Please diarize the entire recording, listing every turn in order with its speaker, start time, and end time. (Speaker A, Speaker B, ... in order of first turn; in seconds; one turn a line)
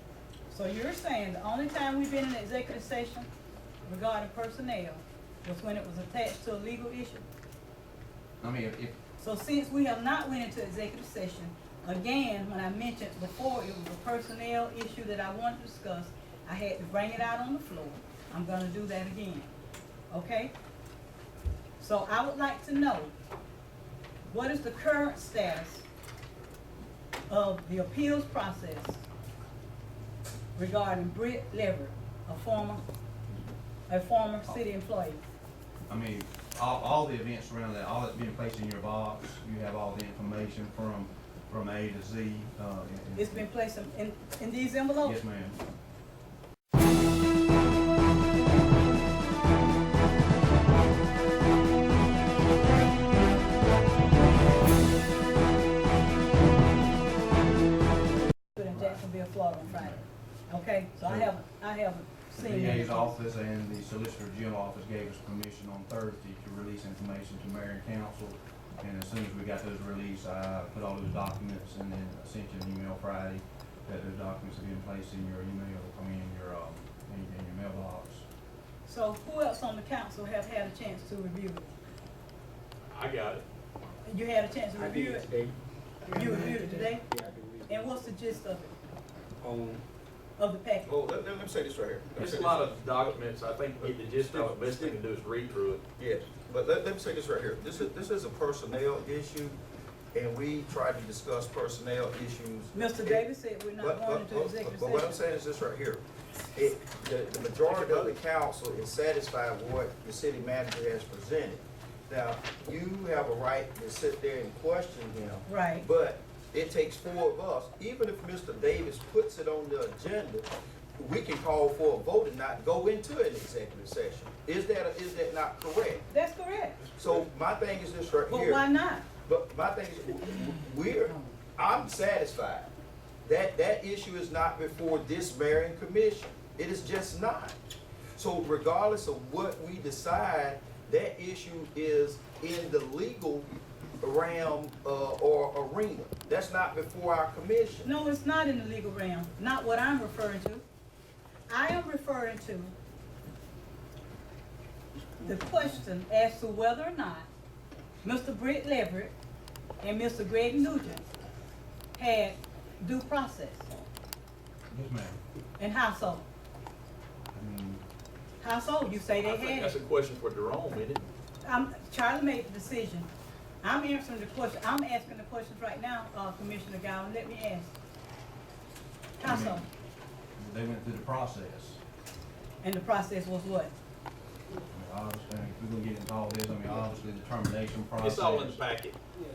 Speaker A: 0.5-3.3
Speaker A: 3.9-7.2
Speaker B: 8.4-9.0
Speaker A: 9.2-19.5
Speaker A: 20.1-20.5
Speaker A: 21.8-23.1
Speaker A: 24.3-25.9
Speaker A: 27.3-29.0
Speaker A: 30.6-32.8
Speaker A: 33.9-35.2
Speaker B: 35.9-43.5
Speaker A: 43.2-45.2
Speaker B: 45.0-45.6
Speaker A: 58.6-60.0
Speaker B: 58.7-60.1
Speaker A: 60.5-63.1
Speaker B: 61.0-61.3
Speaker B: 62.4-78.3
Speaker A: 78.9-81.7
Speaker C: 82.9-83.4
Speaker A: 84.1-85.3
Speaker D: 84.8-87.8
Speaker A: 86.1-87.1
Speaker A: 87.7-88.7
Speaker D: 89.4-89.8
Speaker A: 90.4-90.9
Speaker E: 90.8-92.7
Speaker C: 92.2-95.9
Speaker E: 93.8-95.0
Speaker E: 96.0-99.6
Speaker E: 100.1-103.2
Speaker A: 102.7-105.2
Speaker E: 103.8-106.0
Speaker E: 106.5-126.1
Speaker C: 107.7-108.2
Speaker A: 115.5-115.9
Speaker A: 126.1-126.8
Speaker E: 127.0-128.7
Speaker A: 128.3-129.1
Speaker E: 129.2-132.7
Speaker E: 133.2-137.6
Speaker E: 138.2-143.5
Speaker E: 144.0-147.9
Speaker A: 147.8-150.6
Speaker A: 151.5-152.7
Speaker A: 155.2-157.3
Speaker A: 158.0-159.1
Speaker A: 159.8-161.0
Speaker A: 162.0-163.7
Speaker B: 164.7-165.2
Speaker A: 165.6-166.2
Speaker B: 167.3-167.8
Speaker A: 168.4-169.8
Speaker C: 169.1-171.1
Speaker A: 171.4-173.1
Speaker A: 173.6-177.7
Speaker A: 179.2-179.7
Speaker B: 179.2-179.7
Speaker B: 180.4-181.8
Speaker A: 182.6-183.7
Speaker B: 184.7-188.6
Speaker C: 188.0-189.0